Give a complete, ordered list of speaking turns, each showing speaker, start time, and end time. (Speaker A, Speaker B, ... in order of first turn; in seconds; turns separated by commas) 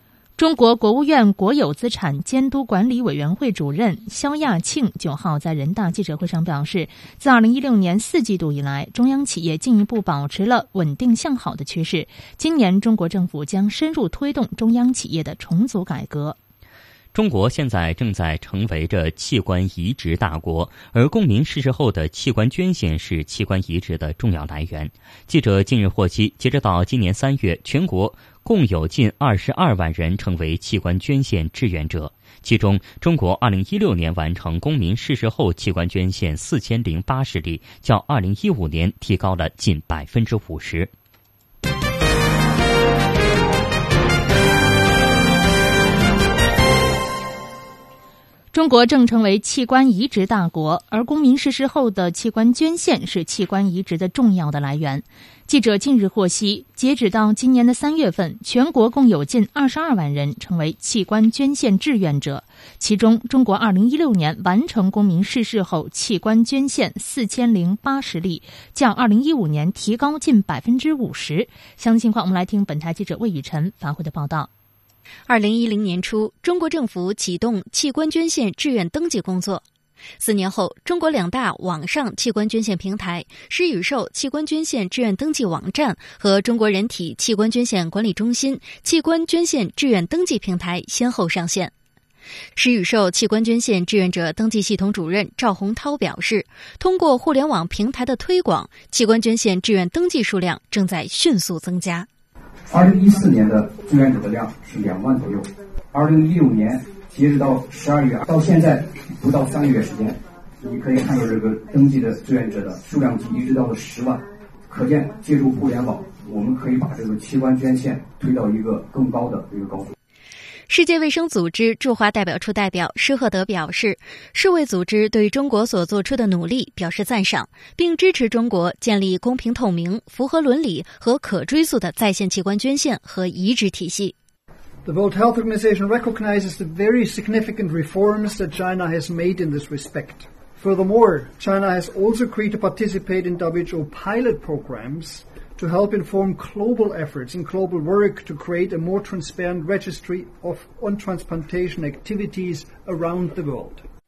Speaker A: 0.4-16.4, Speaker B: 17.1-40.9, Speaker A: 48.5-74.5, Speaker C: 75.3-79.6, Speaker C: 80.2-91.7, Speaker C: 92.5-102.1, Speaker D: 102.7-119.9, Speaker C: 120.7-134.1, Speaker E: 134.8-153.8